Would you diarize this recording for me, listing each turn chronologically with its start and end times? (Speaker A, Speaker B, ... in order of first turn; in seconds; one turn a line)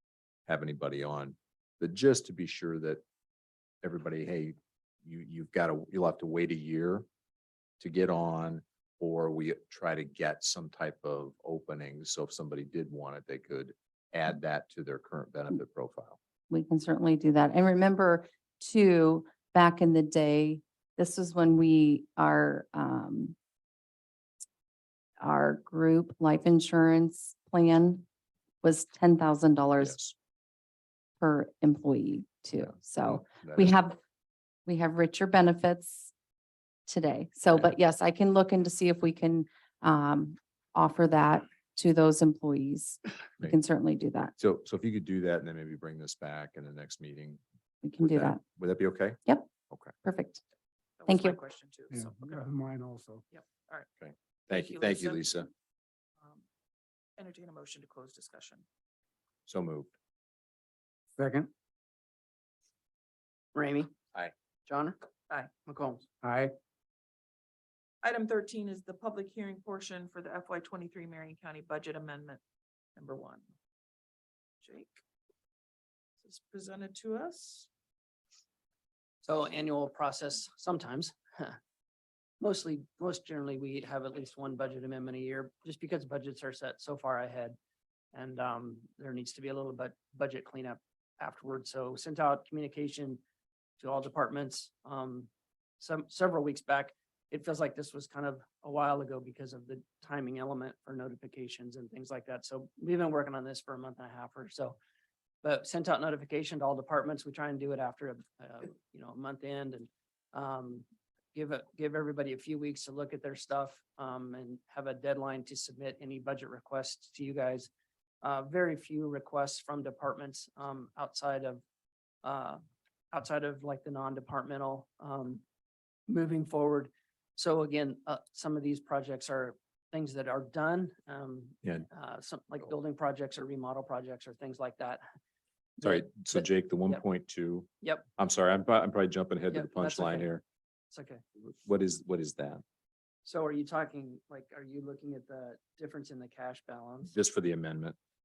Speaker A: 0.5-3.0
Speaker A: 3.8-7.1
Speaker A: 7.8-16.2
Speaker B: 16.5-23.4
Speaker B: 25.2-28.1
Speaker B: 28.6-30.0
Speaker A: 29.8-30.1
Speaker B: 31.2-34.0
Speaker A: 33.3-33.7
Speaker B: 34.7-36.1
Speaker B: 36.9-44.4
Speaker A: 44.4-47.4
Speaker B: 47.8-48.4
Speaker A: 48.0-49.2
Speaker B: 50.0-50.4
Speaker C: 51.0-52.4
Speaker B: 51.1-51.4
Speaker D: 51.9-53.2
Speaker C: 53.3-53.9
Speaker A: 54.0-55.5
Speaker C: 54.5-55.4
Speaker C: 57.2-58.6
Speaker A: 59.5-59.9
Speaker D: 61.2-61.5
Speaker E: 63.5-63.9
Speaker E: 64.7-66.1
Speaker D: 66.2-66.5
Speaker C: 68.0-72.4
Speaker C: 73.0-73.5
Speaker C: 74.6-75.0
Speaker C: 76.2-77.7
Speaker E: 79.2-81.6
Speaker E: 82.4-87.6
Speaker E: 88.1-93.2
Speaker E: 93.8-95.3
Speaker E: 95.8-104.8
Speaker E: 105.4-117.7
Speaker E: 118.2-121.6
Speaker E: 122.2-122.6
Speaker E: 123.1-125.4
Speaker E: 126.1-135.1
Speaker E: 135.8-137.0
Speaker A: 135.8-140.4
Speaker E: 139.5-140.3
Speaker E: 140.9-141.2
Speaker A: 141.4-142.6
Speaker E: 143.3-147.1
Speaker A: 147.1-148.0